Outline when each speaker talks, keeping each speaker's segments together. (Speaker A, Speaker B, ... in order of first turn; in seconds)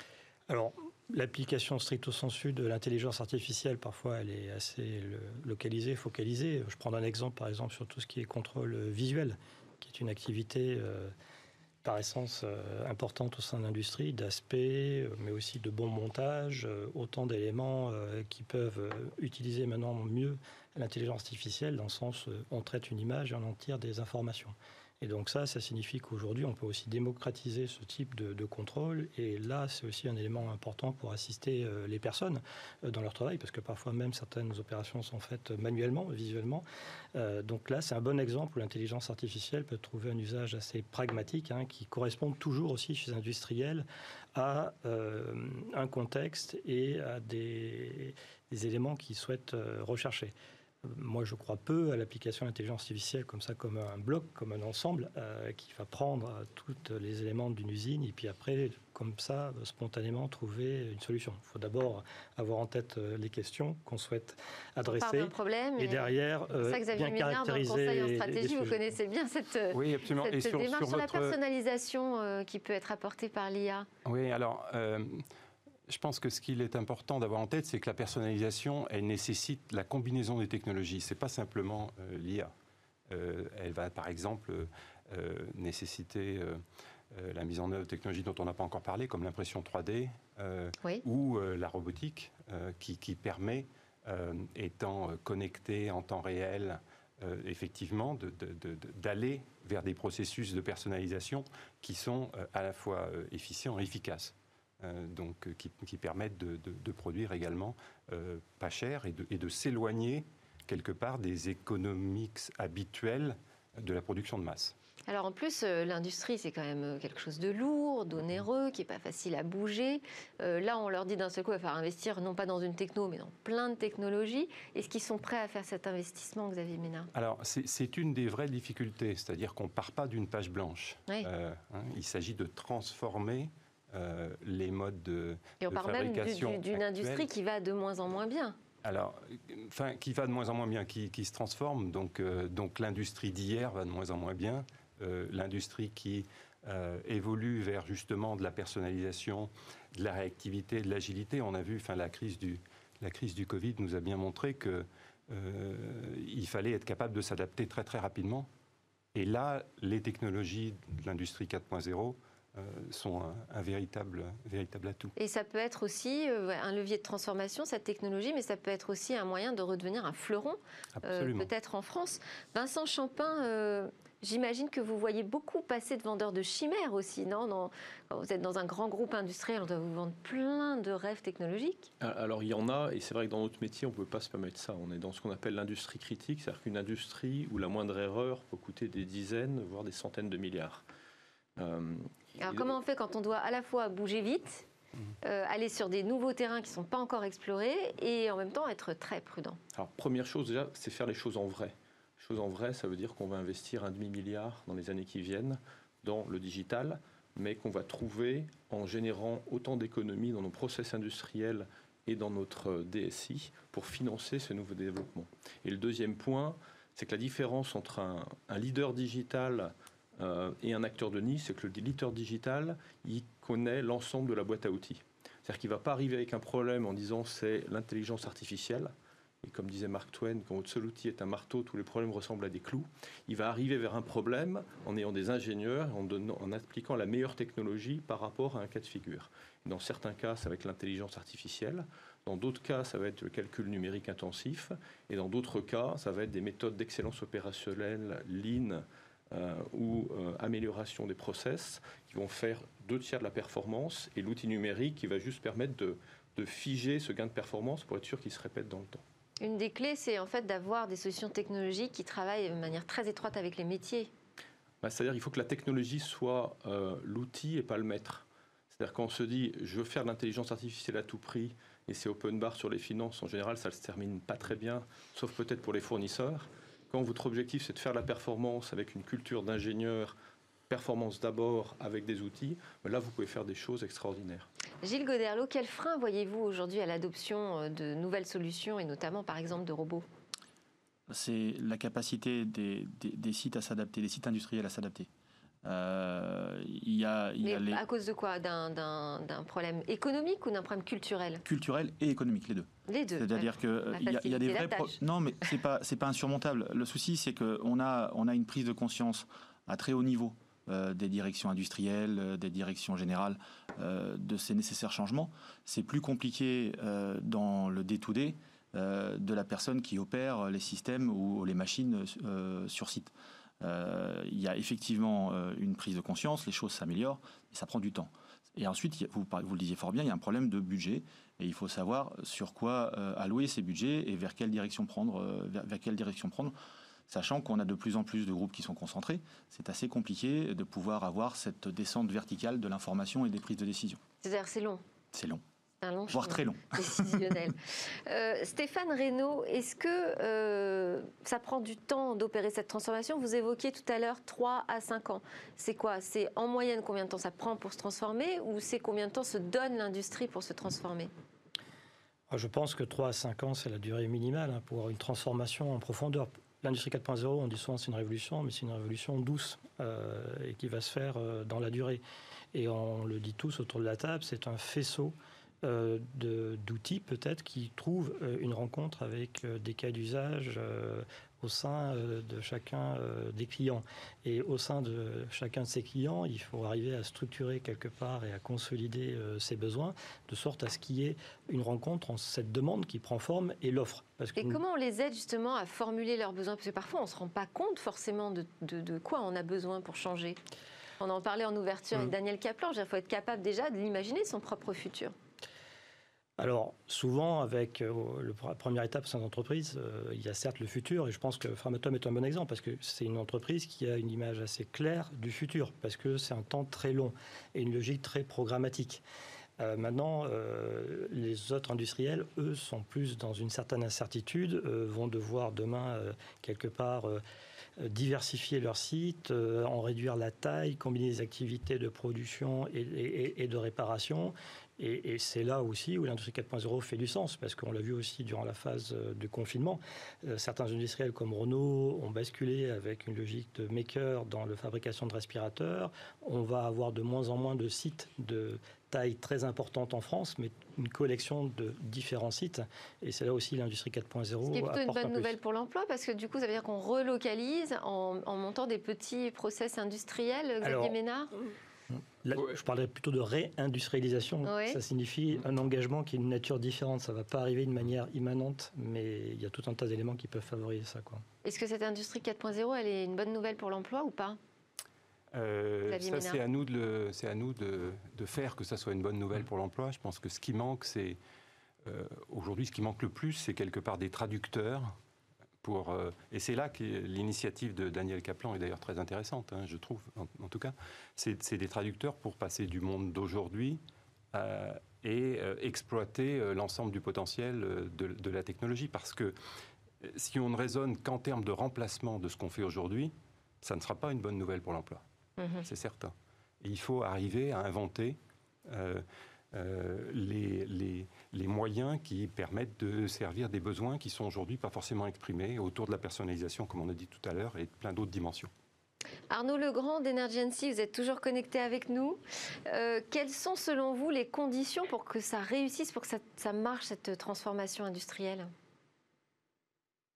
Speaker A: 0.5-11.1, 11.8-50.3, 50.9-68.8, 362.3-372.0, 372.5-394.6, 406.4-419.0, 419.6-427.2, 427.8-455.4, 460.6-461.0, 462.2-471.2
Speaker B: 64.8-73.9, 115.1-127.1, 135.6-138.6, 165.2-181.9, 192.4-194.7, 195.2-199.6, 259.4-264.1, 284.8-290.1, 297.4-301.4, 302.9-305.0, 344.2-344.8, 345.8-361.1, 394.4-400.4, 401.0-405.1, 454.5-461.3, 464.5-464.8, 471.4-474.4, 475.9-476.4, 505.4-505.6, 519.3-528.5
Speaker C: 69.7-71.4, 74.0-75.3, 75.9-82.5, 83.1-114.8, 127.1-137.3, 138.8-158.5, 159.1-165.1, 171.0-171.5, 475.3-481.2, 481.8-484.9, 485.6-493.8, 494.3-499.4, 500.0-505.0, 505.6-518.5
Speaker D: 182.0-190.8, 191.6-192.7, 199.7-259.0, 264.8-280.1, 280.7-284.5
Speaker E: 291.1-295.1, 295.6-297.8, 301.4-336.6, 337.1-344.0, 345.1-345.4, 346.1-347.2